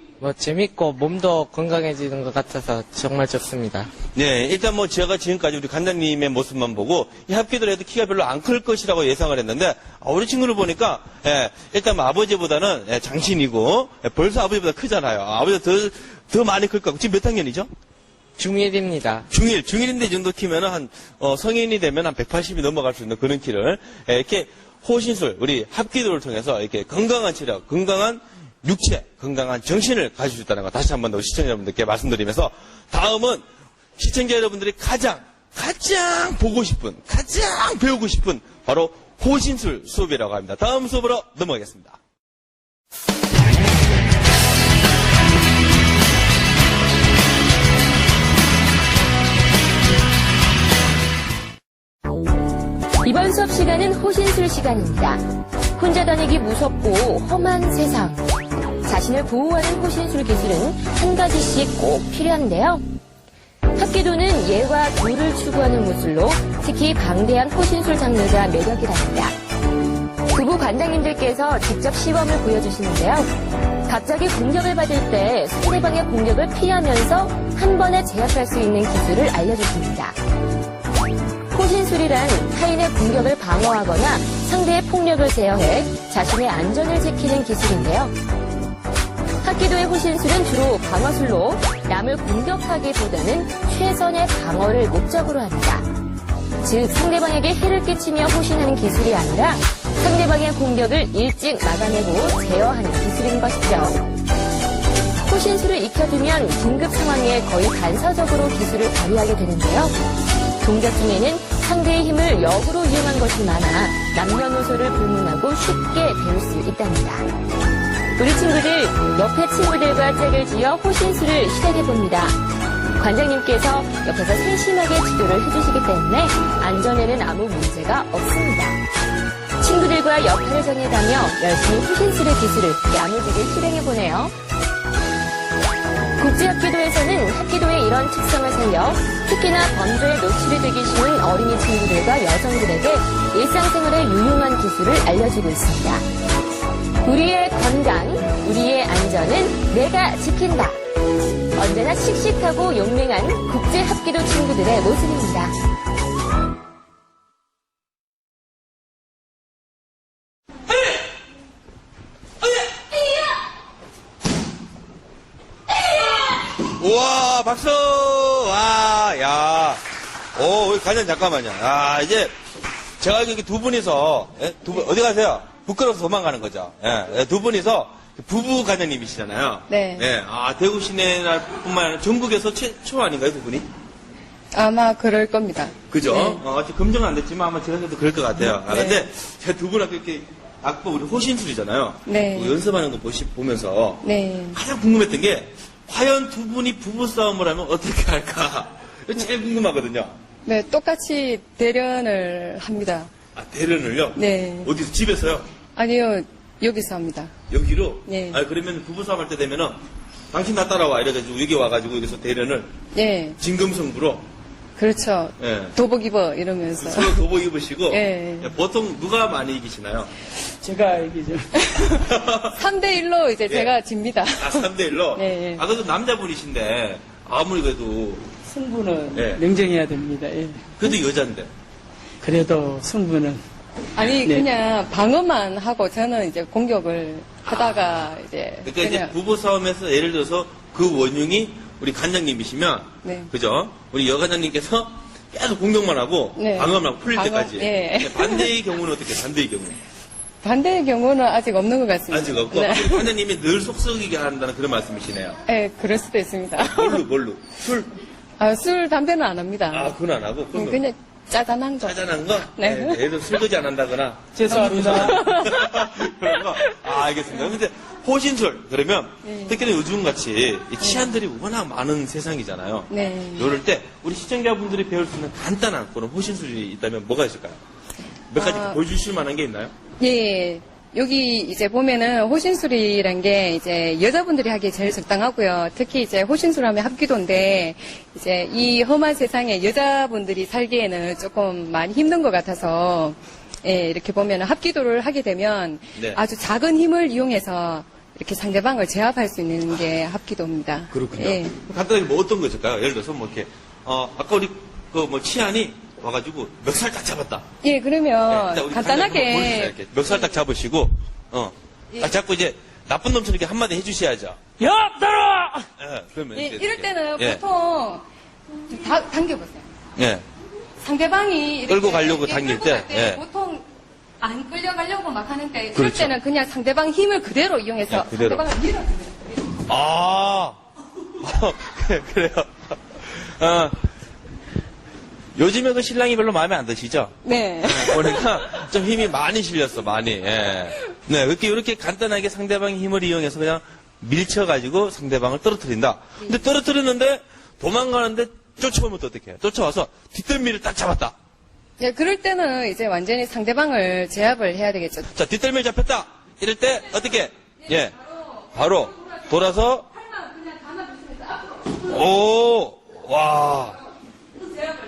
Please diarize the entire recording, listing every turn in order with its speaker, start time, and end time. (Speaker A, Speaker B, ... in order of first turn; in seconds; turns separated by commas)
Speaker A: 0.2-3.9, Speaker B: 4.1-17.7, Speaker A: 18.4-19.3, Speaker B: 19.3-33.4, Speaker B: 34.0-42.0, Speaker C: 53.0-55.2, Speaker C: 55.8-58.2, Speaker C: 58.8-62.8, Speaker C: 63.8-69.3, Speaker C: 70.3-73.3, Speaker C: 73.9-80.2, Speaker C: 81.5-88.1, Speaker C: 89.4-95.8, Speaker C: 96.6-104.0, Speaker C: 105.2-109.9, Speaker C: 110.6-117.2, Speaker C: 118.2-122.4, Speaker C: 123.0-128.8, Speaker C: 129.6-134.3, Speaker C: 136.2-146.0, Speaker C: 147.0-150.8, Speaker C: 151.5-155.5, Speaker B: 166.7-169.8, Speaker B: 170.3-172.3, Speaker B: 173.0-183.7, Speaker D: 179.7-180.1, Speaker D: 184.5-186.4, Speaker B: 185.9-200.2, Speaker D: 188.4-189.1, Speaker D: 192.1-192.6, Speaker D: 194.0-194.6, Speaker D: 200.4-203.1, Speaker B: 203.3-205.5, Speaker D: 204.1-204.7, Speaker D: 205.8-207.3, Speaker B: 207.5-209.8, Speaker D: 208.1-208.4, Speaker B: 210.3-212.7, Speaker D: 212.9-213.4, Speaker B: 213.4-214.2, Speaker D: 214.8-217.3, Speaker B: 215.4-215.7, Speaker B: 216.8-220.1, Speaker D: 217.9-218.5, Speaker E: 220.6-221.7, Speaker B: 221.9-222.6, Speaker D: 222.5-225.6, Speaker B: 223.5-223.7, Speaker B: 224.4-228.3, Speaker E: 228.5-230.9, Speaker B: 229.1-229.4, Speaker B: 230.8-231.5, Speaker E: 232.2-233.4, Speaker D: 233.9-239.1, Speaker B: 238.6-249.8, Speaker D: 243.0-243.3, Speaker D: 246.3-248.5, Speaker D: 250.4-253.1, Speaker B: 252.1-255.4, Speaker D: 255.5-257.0, Speaker B: 256.6-257.9, Speaker D: 258.4-259.9, Speaker B: 259.7-260.8, Speaker D: 260.5-263.0, Speaker B: 261.8-277.6, Speaker E: 264.3-265.3, Speaker D: 264.4-266.1, Speaker D: 269.2-269.6, Speaker D: 270.8-271.2, Speaker D: 272.9-273.5, Speaker B: 278.3-279.7, Speaker D: 278.4-278.8, Speaker D: 280.0-301.5, Speaker B: 295.9-296.2, Speaker B: 300.9-307.4, Speaker D: 307.6-309.8, Speaker B: 308.3-314.4, Speaker E: 314.6-315.7, Speaker B: 315.8-317.4, Speaker D: 316.3-318.0, Speaker D: 318.7-319.7, Speaker B: 320.0-320.2, Speaker D: 320.8-323.6, Speaker B: 321.7-323.2, Speaker D: 324.2-329.5, Speaker B: 325.7-326.1, Speaker B: 327.9-328.4, Speaker B: 329.7-330.6, Speaker B: 331.2-333.8, Speaker B: 335.4-351.1, Speaker D: 337.2-338.3, Speaker D: 351.8-355.1, Speaker B: 355.1-357.9, Speaker B: 358.5-359.9, Speaker B: 361.8-363.8